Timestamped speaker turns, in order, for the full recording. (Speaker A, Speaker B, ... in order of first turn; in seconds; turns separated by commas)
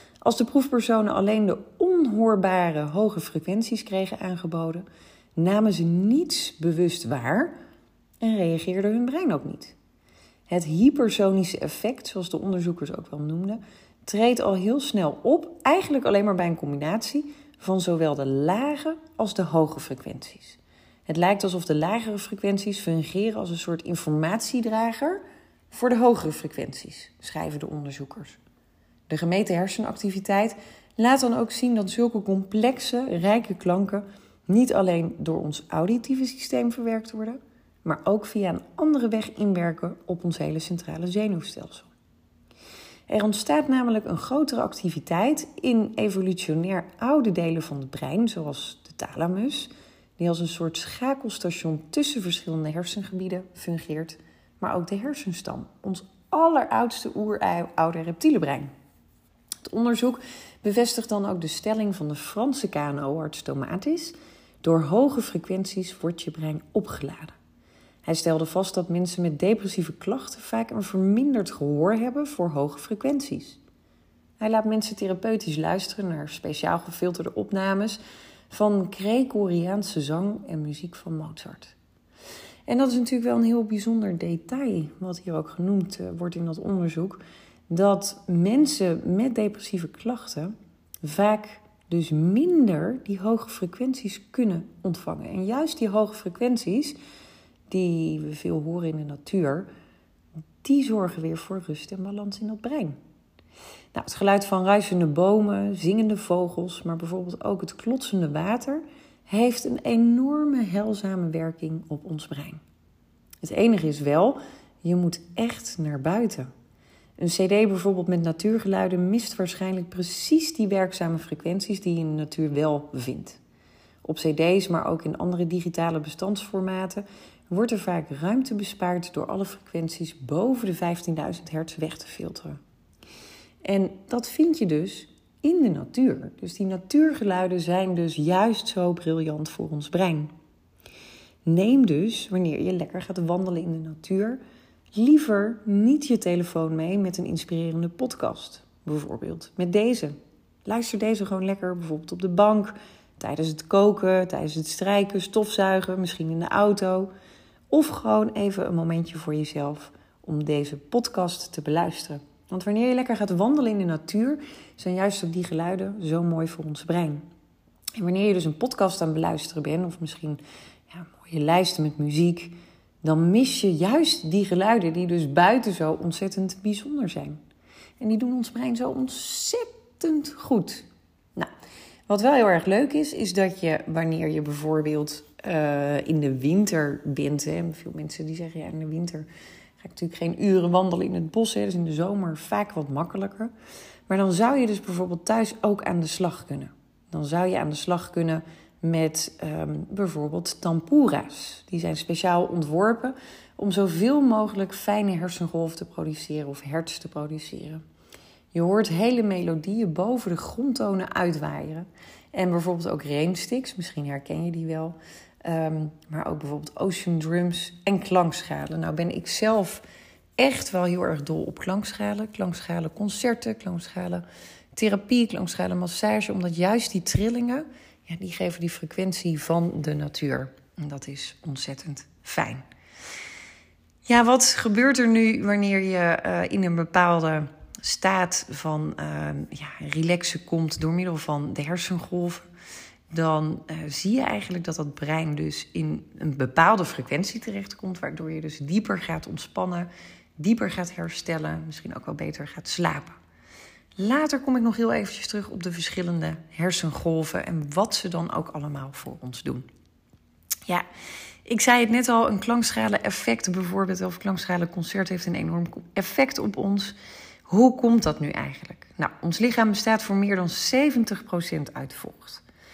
Speaker A: 0.2-4.8, Speaker A: 5.4-7.5, Speaker A: 8.2-9.7, Speaker A: 10.5-25.2, Speaker A: 25.7-28.4, Speaker A: 29.1-41.9, Speaker A: 43.1-58.7, Speaker A: 59.6-67.3, Speaker A: 68.0-73.6, Speaker A: 74.4-81.7, Speaker A: 82.7-97.0, Speaker A: 97.7-99.7, Speaker A: 100.6-103.0, Speaker A: 103.9-112.6, Speaker A: 113.4-116.5, Speaker A: 117.2-123.4, Speaker A: 124.0-132.6, Speaker A: 133.6-140.3, Speaker A: 141.4-144.4, Speaker A: 144.9-150.1, Speaker A: 150.7-157.1, Speaker A: 157.7-167.2, Speaker A: 168.0-177.4, Speaker A: 178.0-181.5, Speaker A: 182.1-189.3, Speaker A: 189.8-193.5, Speaker A: 194.1-207.8, Speaker A: 208.5-219.8, Speaker A: 220.4-232.6, Speaker A: 234.1-242.5, Speaker A: 243.1-253.2, Speaker A: 254.0-259.6, Speaker A: 261.4-266.9, Speaker A: 267.5-272.4